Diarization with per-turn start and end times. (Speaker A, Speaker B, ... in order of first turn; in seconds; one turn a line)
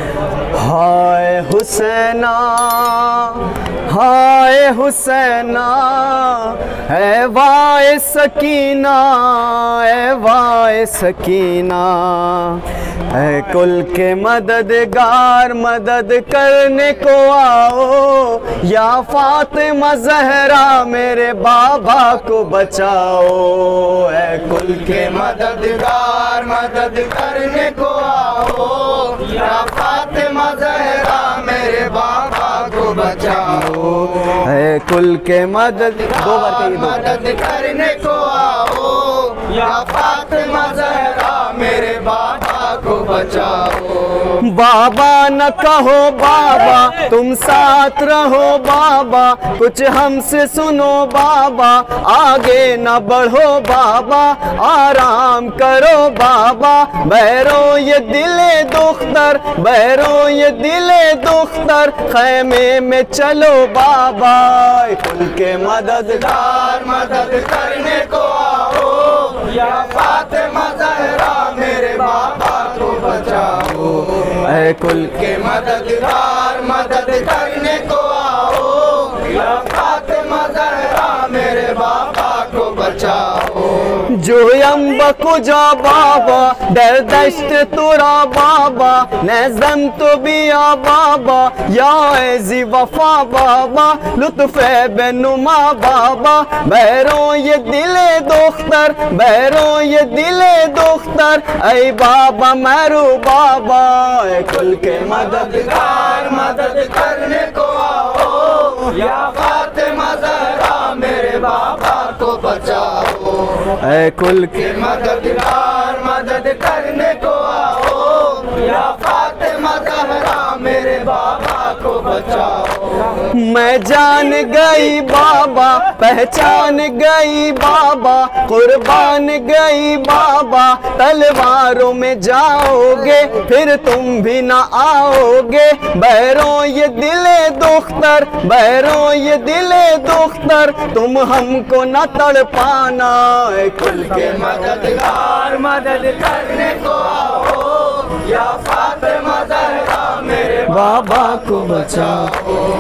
Speaker A: 0.5-25.0
Speaker B: 24.8-34.1
Speaker A: 33.7-37.2
Speaker B: 36.1-44.4
Speaker A: 44.4-66.4
Speaker B: 66.3-74.2
Speaker A: 74.2-75.3
Speaker B: 75.1-84.0
Speaker A: 84.0-105.7
Speaker B: 105.5-113.7
Speaker A: 113.8-114.8
Speaker B: 114.6-123.2
Speaker A: 123.3-144.5
Speaker B: 144.3-150.8
Speaker A: 150.7-152.3
Speaker B: 152.0-152.5